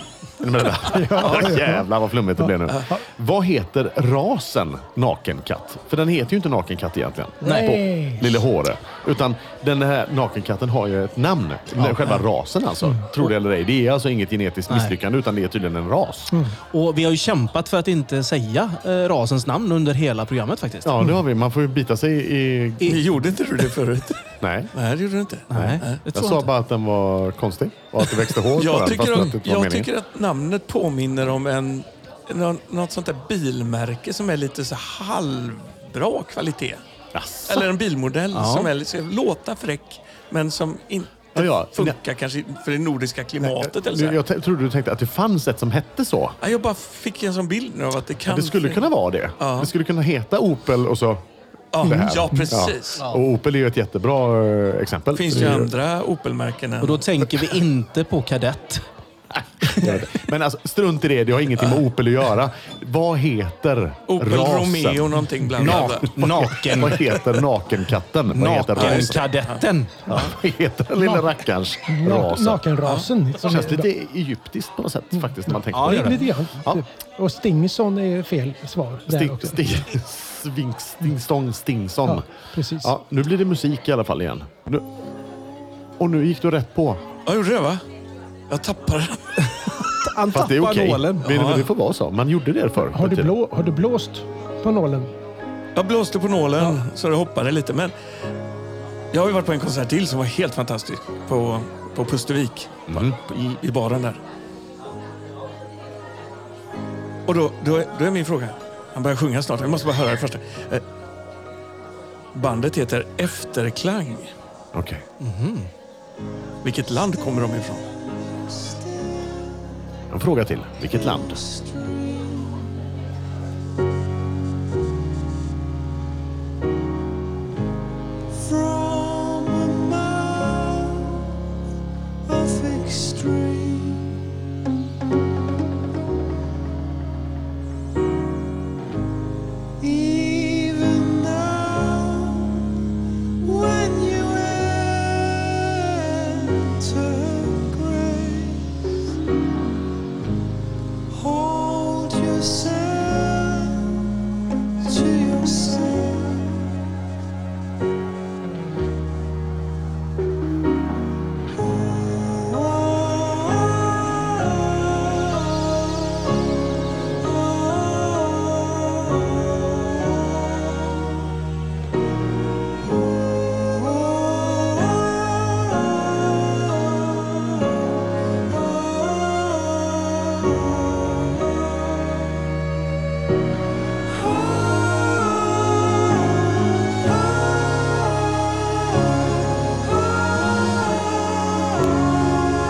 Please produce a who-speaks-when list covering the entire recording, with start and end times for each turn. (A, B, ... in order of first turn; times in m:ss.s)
0:00.4-0:16.3 A
0:00.9-0:01.8 B
0:02.4-0:03.0 B
0:07.4-0:08.3 B
0:07.4-0:07.8 C
0:11.8-0:12.2 C
0:14.7-0:15.0 C
0:16.7-0:20.9 C
0:20.8-0:23.1 A
0:22.8-0:26.0 D
0:24.4-0:24.7 A
0:25.5-0:26.5 C
0:25.5-0:29.9 A
0:28.5-0:36.8 D
0:37.1-0:37.7 A
0:37.5-0:44.2 D
0:38.3-0:38.7 C
0:41.4-0:42.0 A
0:43.4-0:46.4 A
0:46.4-0:48.9 D
0:48.3-0:51.2 A
0:49.4-0:49.7 D
0:51.7-0:53.0 D
0:51.8-0:55.7 A
0:51.9-0:52.4 B
0:55.2-0:57.1 D
0:56.8-0:58.8 C
0:59.3-1:09.2 A
1:04.1-1:06.2 D
1:05.6-1:07.1 C
1:08.3-1:10.1 C
1:08.8-1:09.6 D
1:10.1-1:12.6 A
1:11.0-1:11.3 B
1:11.9-1:13.9 B
1:12.8-1:13.6 D
1:13.4-1:16.8 A
1:15.2-1:19.8 B
1:15.7-1:16.4 C
1:19.1-1:22.3 A
1:22.1-1:22.9 B
1:22.8-1:24.9 A
1:26.0-1:27.0 A
1:27.3-1:27.8 D
1:28.5-1:29.4 D
1:29.4-1:31.3 C
1:30.3-1:33.3 A
1:31.2-1:31.7 D
1:32.9-1:35.1 B
1:35.8-1:37.9 D
1:39.1-1:44.2 D
1:42.9-1:43.2 A
1:47.3-1:50.8 D
1:52.3-1:54.3 D
1:54.7-1:55.0 A
1:55.2-1:55.7 C
1:56.6-1:57.8 D
1:58.5-1:59.1 E
2:00.1-2:01.4 A
2:01.3-2:02.3 E
2:08.4-2:10.9 E
2:12.3-2:14.1 E
2:19.8-2:22.5 E
2:23.4-2:25.5 E
2:26.1-2:28.6 E
2:31.1-2:33.8 E
2:34.8-2:36.3 E